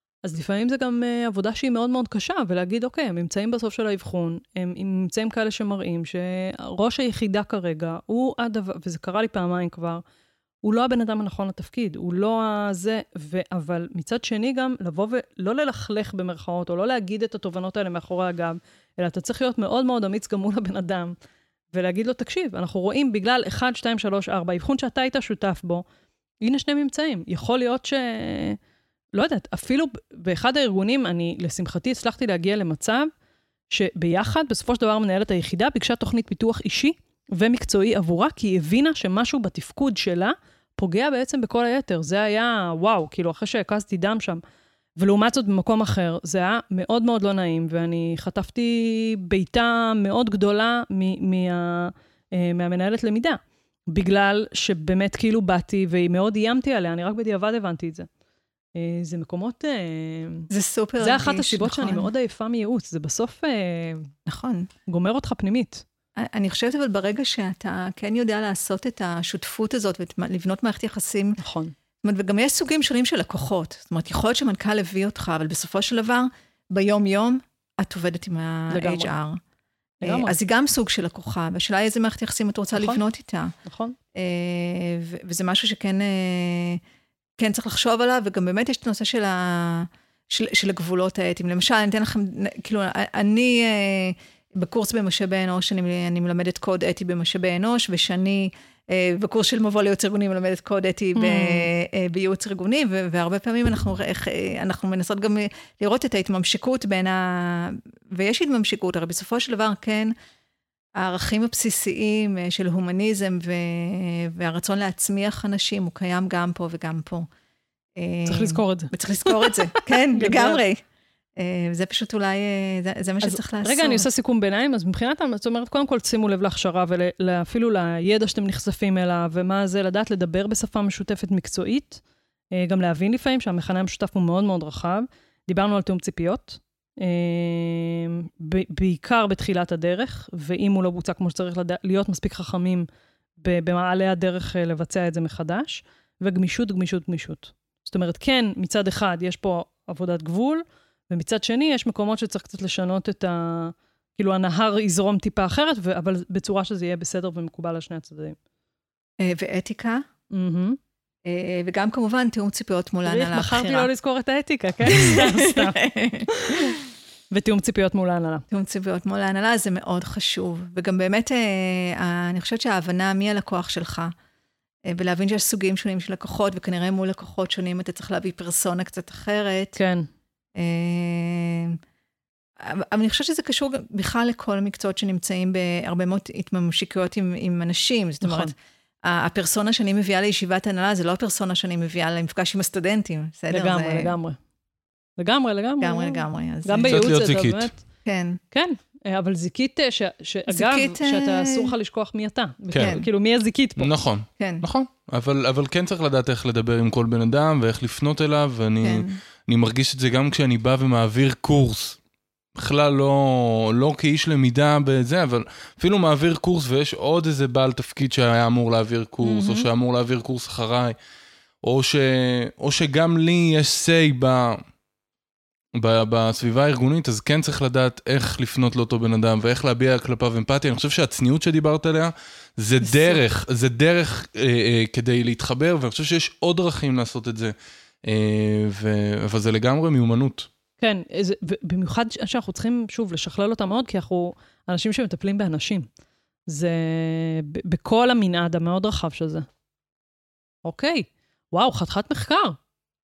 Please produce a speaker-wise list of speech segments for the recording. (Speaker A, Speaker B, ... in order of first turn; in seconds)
Speaker A: 0.2-10.0, 10.6-21.1, 21.7-25.8, 26.4-28.6, 29.1-33.1, 33.7-44.4, 45.0-53.4, 53.9-58.1, 58.8-60.5, 61.0-64.1, 64.9-65.8, 71.4-71.7, 78.7-79.1, 80.0-80.3, 83.6-84.0, 101.1-101.7, 118.3-120.6, 123.2-132.0, 132.5-142.8, 143.4-158.4, 160.3-160.8, 163.0-166.7, 167.3-168.4, 179.8-180.1, 188.2-188.5, 193.5-194.4, 195.2-197.8, 198.5-203.9, 219.2-219.7, 240.8-245.9, 246.5-249.4, 250.6-252.6
Speaker B: 60.5-62.1, 64.2-64.7, 66.2-71.4, 72.0-79.4, 80.0-83.5, 84.1-86.8, 87.4-110.1, 111.0-117.3, 118.0-120.8, 121.3-124.0, 159.2-160.0, 161.2-163.9, 164.8-166.8, 168.5-174.1, 174.8-179.8, 180.5-181.8, 182.6-194.1, 195.8-197.1, 198.0-198.4, 200.5-201.7, 202.8-203.1, 204.4-204.6, 208.8-209.2, 232.8-233.2
Speaker C: 196.9-197.7, 202.7-203.1, 203.8-212.0, 212.5-220.9, 221.6-224.6, 225.8-240.5